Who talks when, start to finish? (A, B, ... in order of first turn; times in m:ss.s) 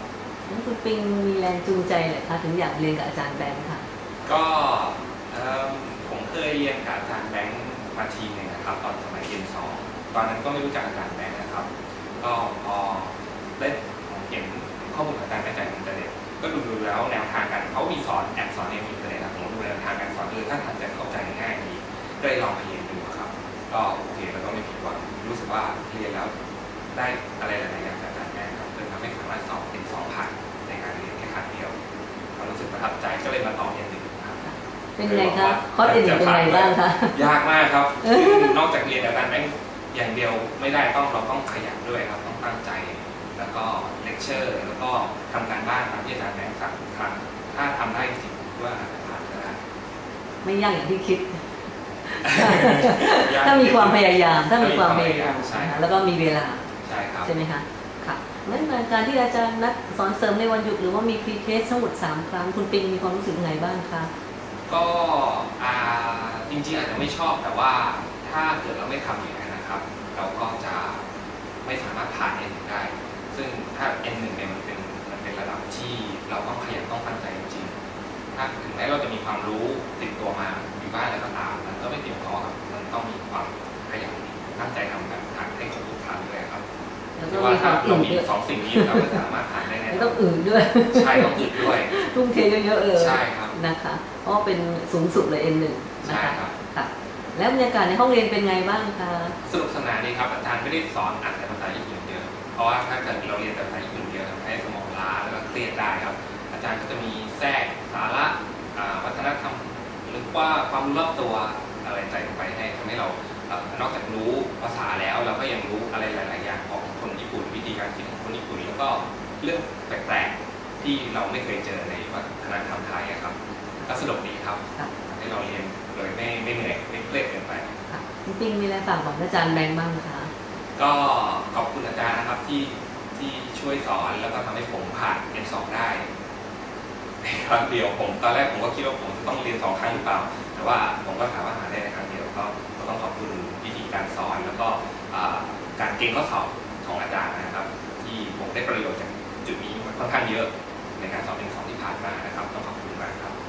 0:00.5-0:03.8 A
0:04.2-0:26.3 B
0:26.9-0:31.7 B
0:32.4-0:34.5 B
0:34.4-0:37.2 A
0:35.0-0:49.6 B
0:38.0-0:38.6 A
0:50.4-0:56.7 A
0:52.2-0:55.8 B
0:56.8-0:57.3 B
0:57.2-1:04.1 A
1:04.7-1:11.0 B
1:11.6-1:17.8 B
1:18.3-1:26.6 B
1:27.2-1:29.2 A
1:27.3-1:30.2 B
1:29.9-1:39.4 A
1:30.9-1:32.0 B
1:32.9-1:33.6 B
1:36.0-1:36.5 B
1:39.4-2:07.7 B
2:07.9-2:10.3 A
2:10.8-2:16.1 B
2:17.2-2:33.3 B